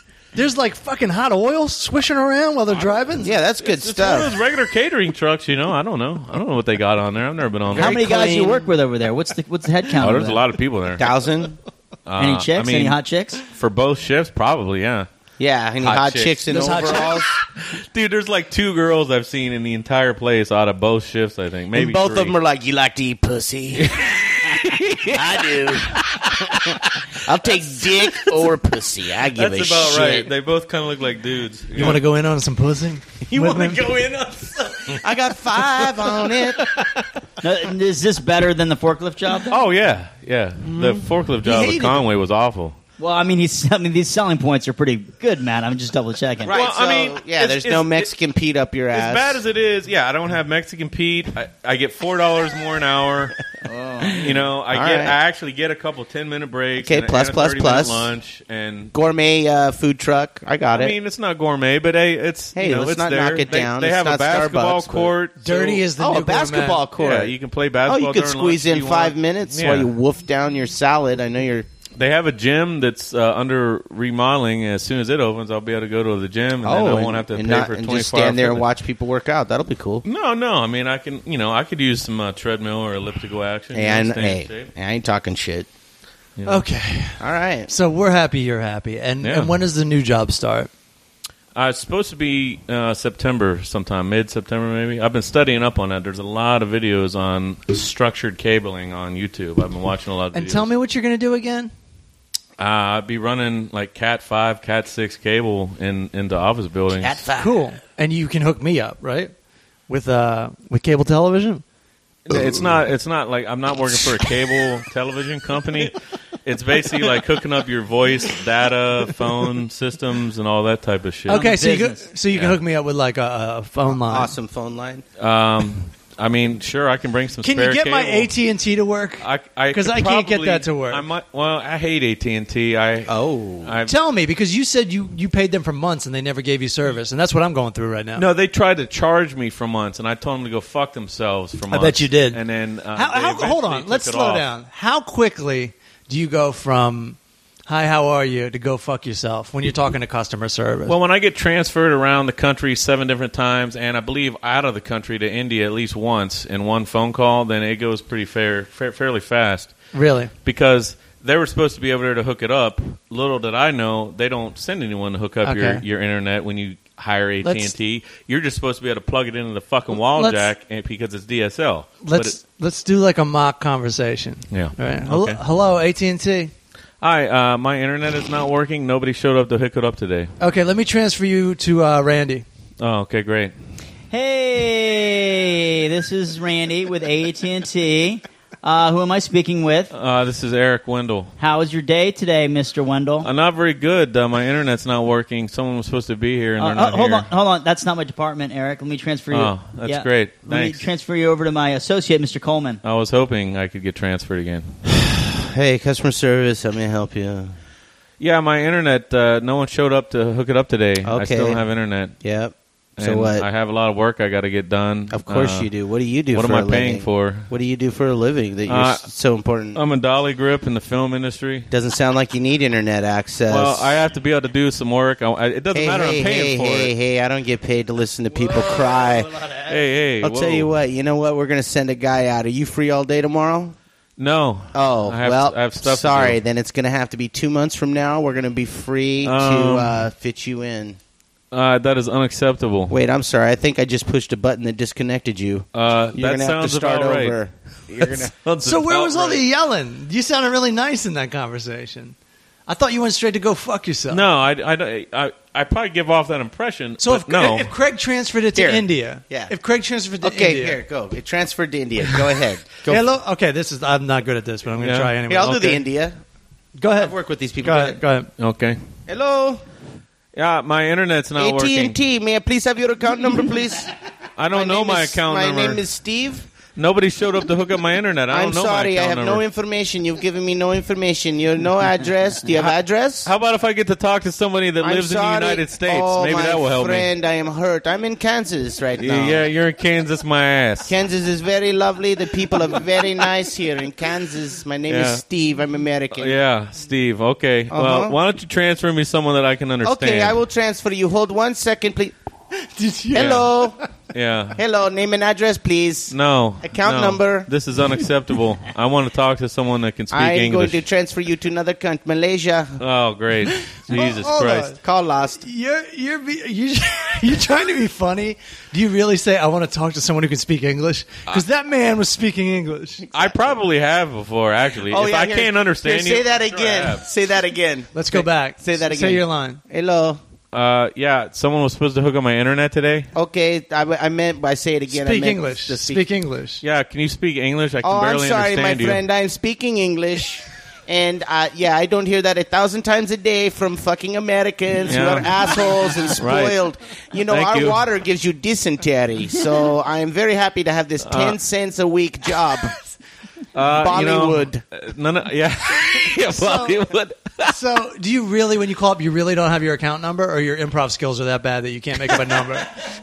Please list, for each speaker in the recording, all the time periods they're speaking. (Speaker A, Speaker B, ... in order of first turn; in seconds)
Speaker A: 0.3-3.4, 16.5-17.2, 31.8-33.8, 65.4-66.9, 86.5-90.7, 100.3-101.7, 107.3-109.3, 109.9-111.6, 121.3-124.3, 127.4-131.1, 133.9-138.2, 141.7-142.4, 142.9-151.0, 159.9-160.3, 165.4-165.8, 167.4-167.8, 170.0-170.5, 172.0-176.5, 180.4-182.4, 228.4-229.7, 248.6-252.2, 252.7-254.3, 257.0-260.8, 262.9-265.8, 266.8-268.3, 302.6-303.5, 313.9-314.8, 315.4-323.1, 327.9-329.6, 334.9-336.6, 356.4-356.7, 357.4-362.7
Speaker B: 3.2-4.3, 7.7-8.7, 11.0-11.6, 15.4-17.3, 21.7-30.3, 33.3-36.7, 40.7-42.1, 46.4-49.4, 54.0-55.2, 56.8-58.1, 58.9-61.0, 62.5-65.2, 66.0-71.7, 76.6-80.0, 83.7-85.7, 87.2-87.7, 107.0-107.6, 121.3-122.0, 123.9-125.0, 133.1-133.8, 204.9-207.5, 211.0-211.6, 212.2-213.5, 215.1-219.8, 221.7-223.9, 225.7-229.5, 230.2-233.8, 234.7-241.0, 242.9-248.3, 258.6-259.5, 260.2-263.0, 265.3-266.2, 266.9-268.0, 269.1-269.6, 271.4-273.9, 274.5-276.5, 278.3-283.3, 284.8-289.4, 290.9-296.4, 297.7-298.2, 299.8-302.1, 303.1-303.8, 304.6-307.5, 310.1-312.8, 314.0-315.4, 323.1-323.6, 324.9-330.2, 333.1-336.0, 337.8-352.8, 353.7-354.6
Speaker C: 3.6-8.0, 9.9-11.1, 12.1-15.1, 15.8-22.4, 23.8-26.8, 29.3-32.0, 39.5-42.8, 46.5-48.1, 48.9-53.4, 54.1-58.9, 60.7-65.9, 67.0-69.9, 72.0-78.7, 80.0-84.7, 86.4-86.6, 89.2-89.6, 91.5-100.7, 102.6-107.2, 112.3-121.4, 122.3-122.6, 125.2-128.3, 129.2-133.9, 138.2-144.5, 150.9-159.8, 160.4-172.4, 174.5-175.4, 177.0-180.3, 182.8-183.5, 189.9-191.3, 193.2-197.3, 199.3-200.8, 202.8-204.8, 208.2-212.2, 213.0-215.7, 216.3-217.5, 218.7-219.1, 219.7-221.7, 223.5-226.9, 229.7-230.7, 234.2-236.4, 239.2-240.0, 241.5-242.9, 245.7-247.4, 248.0-249.4, 254.1-257.7, 264.8-265.2, 268.4-268.8, 270.4-272.0, 274.4-275.8, 276.8-279.4, 283.2-287.1, 289.0-291.0, 294.9-295.2, 296.1-300.4, 303.2-303.5, 304.1-304.6, 306.1-310.8, 312.8-314.7, 323.1-327.1, 330.5-333.1, 336.6-339.0, 344.9-345.3, 346.2-346.6, 347.3-347.8, 351.0-351.4, 353.5-357.6
Speaker D: 7.7-10.4, 12.2-13.4, 25.2-25.6, 37.4-39.6, 43.0-46.6, 53.7-54.3, 121.3-122.0, 184.1-189.9, 191.4-193.3, 196.6-202.8